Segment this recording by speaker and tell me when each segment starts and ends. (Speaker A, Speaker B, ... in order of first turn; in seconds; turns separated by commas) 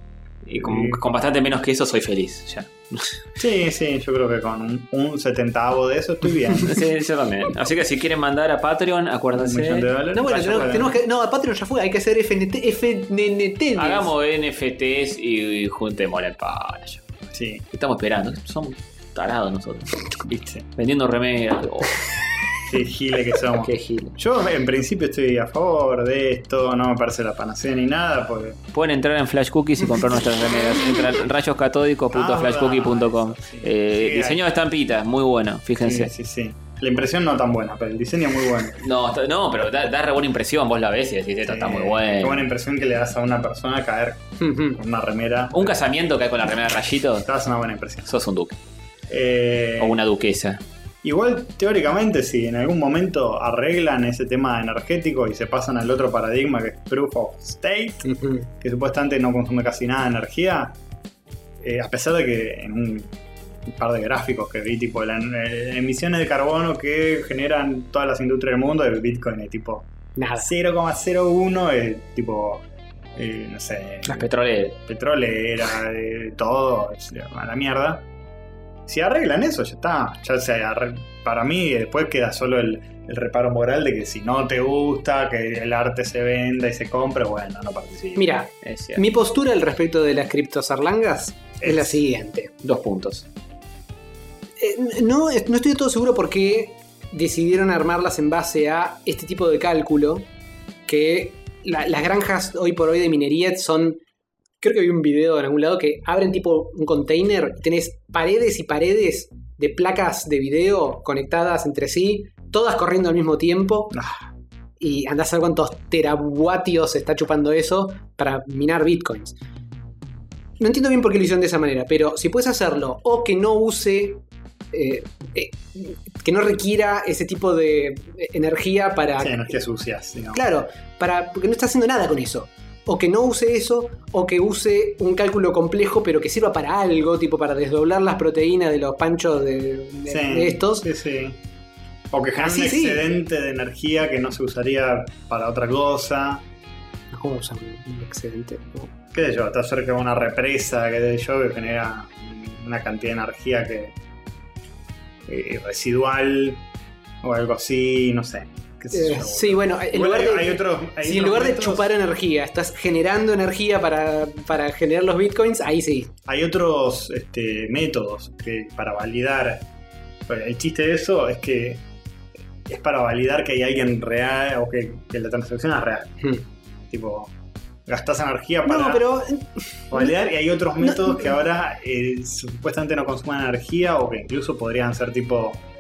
Speaker A: 0.5-3.2, Speaker B: 0.6-1.0, Speaker B: 3.4-6.8, Speaker A: 6.6-10.7, Speaker B: 9.3-10.9, Speaker C: 10.1-14.1, Speaker A: 13.8-17.0, Speaker B: 17.3-17.6, Speaker A: 17.7-20.1, Speaker B: 20.3-20.7, Speaker A: 20.8-22.0, Speaker B: 22.7-28.6, Speaker A: 23.6-24.2, Speaker A: 28.7-36.1, Speaker B: 32.1-34.4, Speaker B: 35.8-38.8, Speaker A: 38.8-42.5, Speaker B: 41.5-45.8, Speaker C: 44.4-44.8, Speaker A: 45.5-47.3, Speaker B: 47.2-48.1, Speaker A: 48.1-48.6, Speaker B: 49.1-50.0, Speaker A: 49.8-50.6, Speaker B: 51.0-60.8, Speaker C: 58.0-58.5, Speaker B: 61.6-63.1, Speaker B: 63.6-72.6, Speaker C: 70.2-70.5, Speaker B: 73.2-74.3, Speaker A: 74.1-74.8, Speaker B: 74.8-78.1, Speaker B: 78.9-88.2, Speaker A: 88.0-89.0, Speaker C: 88.2-92.5, Speaker B: 91.6-92.0, Speaker A: 92.6-93.3, Speaker C: 94.6-100.3, Speaker C: 100.9-104.0, Speaker C: 104.6-114.0, Speaker B: 113.9-114.2, Speaker C: 114.8-119.4, Speaker C: 120.6-129.5, Speaker B: 129.2-130.4, Speaker C: 130.3-140.9, Speaker B: 140.1-141.4, Speaker B: 142.1-146.4, Speaker C: 142.4-143.1, Speaker C: 147.1-148.9, Speaker B: 149.1-153.9, Speaker B: 155.3-156.6, Speaker B: 157.2-161.9, Speaker C: 158.9-166.1, Speaker B: 166.3-169.7, Speaker B: 170.3-171.8, Speaker B: 172.7-176.2, Speaker B: 176.9-177.3, Speaker B: 177.9-179.1, Speaker C: 178.7-180.2, Speaker B: 179.9-185.6, Speaker C: 180.8-181.3